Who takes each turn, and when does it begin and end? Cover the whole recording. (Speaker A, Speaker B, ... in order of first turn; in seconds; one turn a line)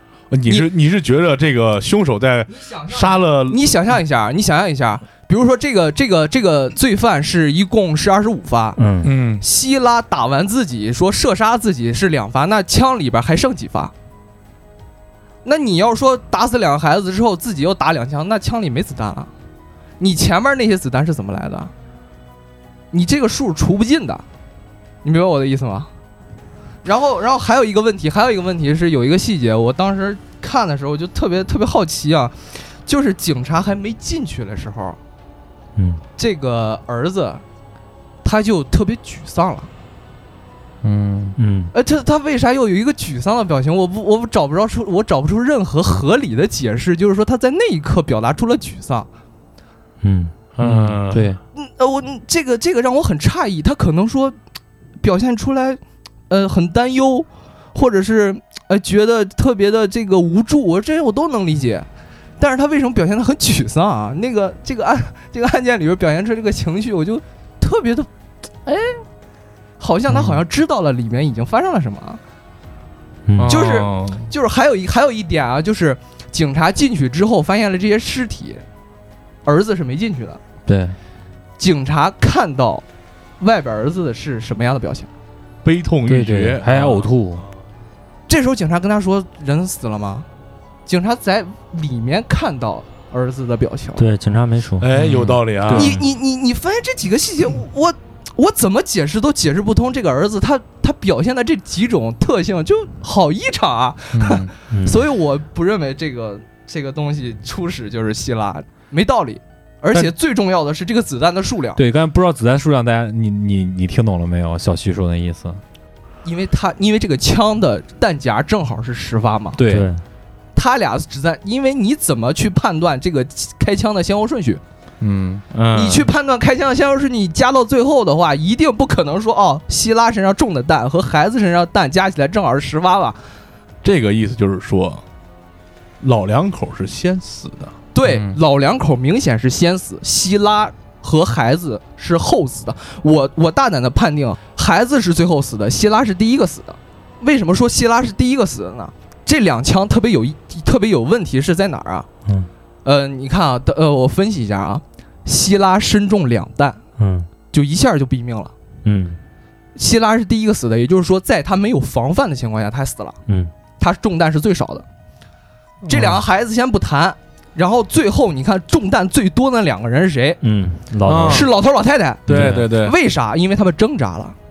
Speaker A: 0.3-3.6
Speaker B: 2.5-8.8
Speaker C: 8.8-9.1
Speaker D: 9.0-9.4
Speaker B: 9.4-13.9
Speaker B: 15.4-19.3
Speaker B: 20.0-21.7
Speaker B: 22.9-24.2
Speaker B: 25.0-25.9
Speaker B: 26.8-35.0
Speaker B: 36.2-37.4
Speaker B: 38.2-39.7
Speaker D: 40.8-41.4
Speaker C: 41.4-41.7
Speaker B: 41.7-49.1
Speaker C: 50.0-50.3
Speaker A: 50.6-51.3
Speaker D: 50.6-51.4
Speaker B: 51.5-54.4
Speaker B: 55.0-61.9
Speaker B: 62.4-68.1
Speaker B: 68.7-69.0
Speaker B: 69.8-72.2
Speaker C: 73.3-73.6
Speaker A: 73.3-74.3
Speaker B: 73.5-78.6
Speaker B: 79.5-80.4
Speaker D: 80.7-81.0
Speaker B: 81.6-82.8
Speaker B: 83.4-85.1
Speaker A: 85.6-87.5
Speaker D: 86.1-87.5
Speaker B: 88.3-90.3
Speaker B: 90.9-94.1
Speaker C: 94.0-94.9
Speaker A: 94.8-96.0
Speaker D: 95.0-96.0
Speaker B: 95.7-111.8
Speaker D: 104.1-104.5
Speaker C: 104.7-105.0
Speaker D: 111.8-115.6
Speaker B: 116.2-119.6
Speaker D: 119.6-119.9
Speaker C: 119.7-120.0
Speaker B: 120.5-124.6
Speaker D: 125.0-125.4
Speaker A: 125.5-126.1
Speaker B: 125.7-133.2
Speaker A: 133.8-135.0
Speaker A: 136.0-137.7
Speaker B: 137.9-152.1
Speaker D: 138.0-138.4
Speaker B: 152.8-156.8
Speaker C: 157.0-157.3
Speaker B: 157.5-158.5
Speaker C: 158.8-159.2
Speaker B: 159.8-163.2
Speaker B: 163.8-164.8
Speaker B: 165.9-170.4
Speaker C: 170.4-171.5
Speaker A: 171.1-171.5
Speaker B: 171.2-174.4
Speaker A: 172.3-173.0
Speaker C: 172.3-172.6